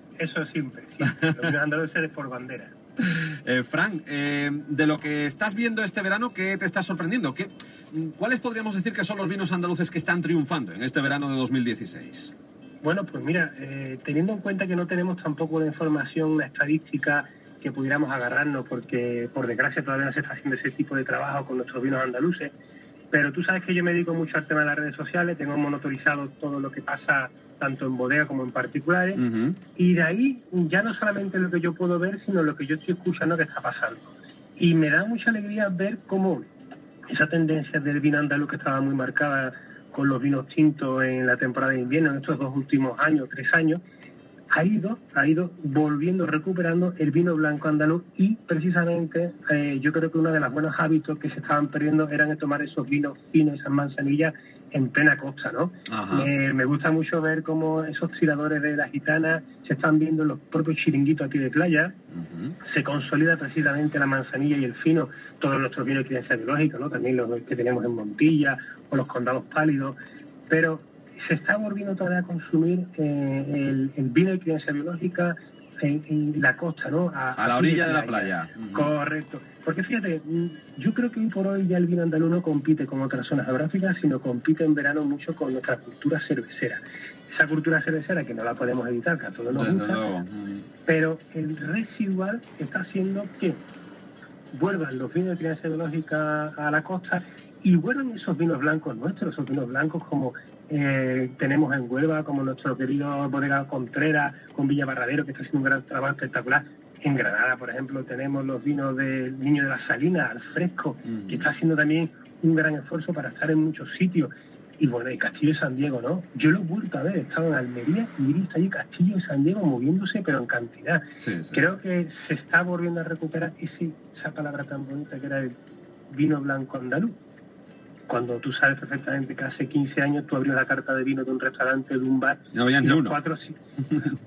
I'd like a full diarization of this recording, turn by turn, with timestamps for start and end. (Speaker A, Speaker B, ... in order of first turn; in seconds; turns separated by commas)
Speaker A: 0.2-2.7, Speaker B: 1.1-1.3, Speaker B: 3.0-12.3, Speaker A: 12.8-22.6, Speaker A: 23.1-29.2, Speaker B: 29.2-29.6, Speaker A: 29.8-36.5, Speaker A: 37.1-43.8, Speaker A: 44.5-62.0, Speaker B: 55.9-56.3, Speaker B: 62.1-62.6, Speaker A: 62.6-70.0, Speaker A: 70.5-90.1, Speaker B: 77.4-78.9, Speaker B: 89.5-90.7, Speaker A: 90.9-93.6, Speaker A: 94.5-125.5, Speaker B: 111.1-111.4, Speaker B: 121.2-121.7, Speaker A: 126.1-127.2, Speaker A: 128.1-134.1, Speaker B: 132.5-133.2